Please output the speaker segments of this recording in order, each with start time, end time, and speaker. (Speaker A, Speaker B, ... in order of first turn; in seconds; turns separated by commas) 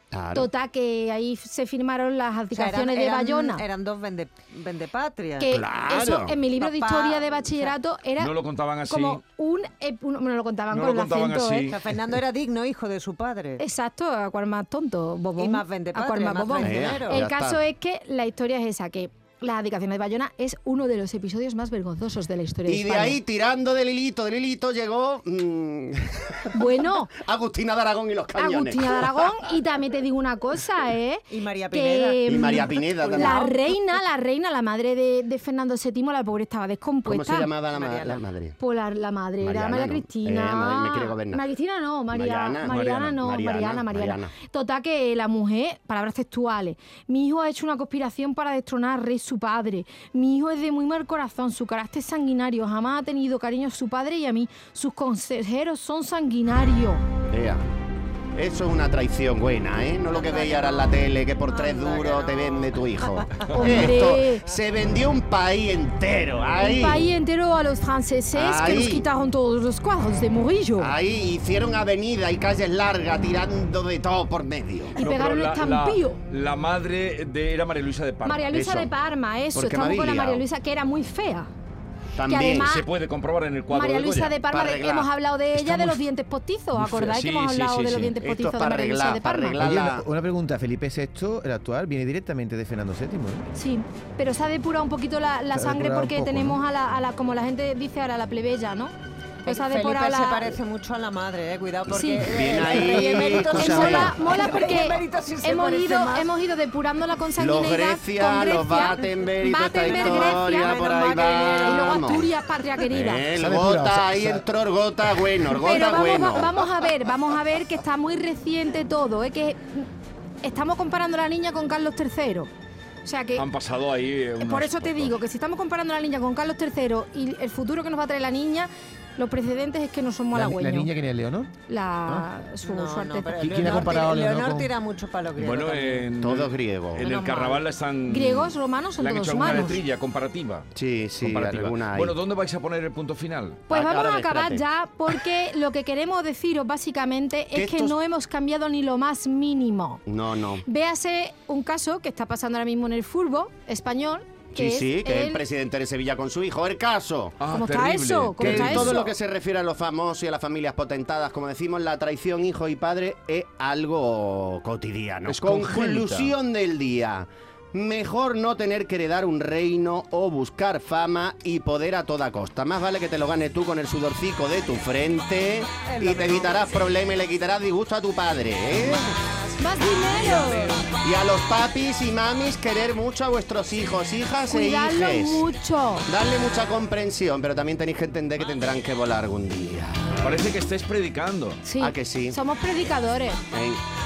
Speaker A: 0.1-0.5, Speaker B: 0.3-3.6, Speaker C: 2.5-5.6, Speaker B: 5.4-11.7, Speaker A: 5.4-6.4, Speaker C: 6.6-7.7, Speaker D: 8.2-9.2, Speaker D: 10.7-12.0, Speaker C: 11.7-13.6, Speaker B: 13.6-23.2, Speaker C: 15.4-17.2, Speaker A: 16.6-17.6, Speaker A: 22.7-29.5, Speaker B: 26.5-27.1, Speaker B: 28.4-37.5, Speaker C: 31.3-33.6, Speaker A: 32.3-33.5, Speaker A: 37.0-38.6, Speaker C: 37.7-38.2, Speaker B: 38.6-57.0, Speaker A: 39.4-41.4, Speaker A: 42.1-44.3, Speaker A: 57.3-57.6, Speaker A: 58.4-67.1, Speaker C: 60.1-63.5, Speaker B: 63.5-64.5, Speaker B: 66.6-70.9, Speaker A: 68.3-69.1, Speaker A: 70.8-75.0, Speaker B: 74.9-76.2, Speaker D: 75.0-78.5, Speaker B: 78.2-81.5, Speaker A: 78.5-78.9, Speaker A: 79.5-80.5, Speaker A: 82.2-82.8, Speaker B: 82.3-82.9, Speaker D: 82.6-84.4, Speaker B: 83.7-89.6, Speaker A: 84.5-86.0, Speaker D: 86.8-88.2, Speaker A: 88.2-90.0, Speaker E: 89.6-93.5, Speaker B: 93.5-98.9, Speaker E: 95.5-96.6, Speaker C: 99.4-106.3, Speaker B: 99.5-100.6, Speaker B: 101.9-110.7, Speaker A: 102.3-104.2, Speaker A: 107.4-112.3, Speaker C: 109.8-112.0, Speaker B: 111.6-113.3, Speaker A: 112.9-116.7, Speaker E: 113.3-114.4, Speaker B: 115.6-119.9, Speaker B: 120.4-122.5, Speaker B: 123.0-123.5, Speaker D: 123.4-125.2, Speaker B: 124.4-130.9, Speaker E: 130.3-131.5, Speaker B: 131.7-134.0, Speaker C: 132.6-136.1, Speaker E: 133.4-134.7, Speaker D: 135.4-140.7, Speaker A: 136.2-137.1, Speaker C: 137.0-137.6, Speaker B: 138.1-139.8, Speaker A: 140.8-142.2, Speaker D: 141.2-143.7, Speaker B: 143.7-150.0, Speaker A: 143.7-144.6, Speaker A: 147.5-148.0, Speaker A: 150.1-150.7, Speaker B: 150.7-155.4, Speaker A: 154.5-157.4, Speaker D: 157.4-159.0, Speaker B: 157.5-159.1, Speaker A: 158.4-179.2, Speaker D: 165.3-166.3, Speaker C: 175.9-176.7, Speaker B: 179.6-180.8, Speaker D: 180.2-180.7, Speaker A: 181.0-185.5, Speaker B: 184.5-186.1, Speaker A: 186.1-190.2, Speaker D: 190.2-191.6, Speaker B: 191.6-193.4, Speaker A: 191.8-192.4, Speaker A: 193.5-193.8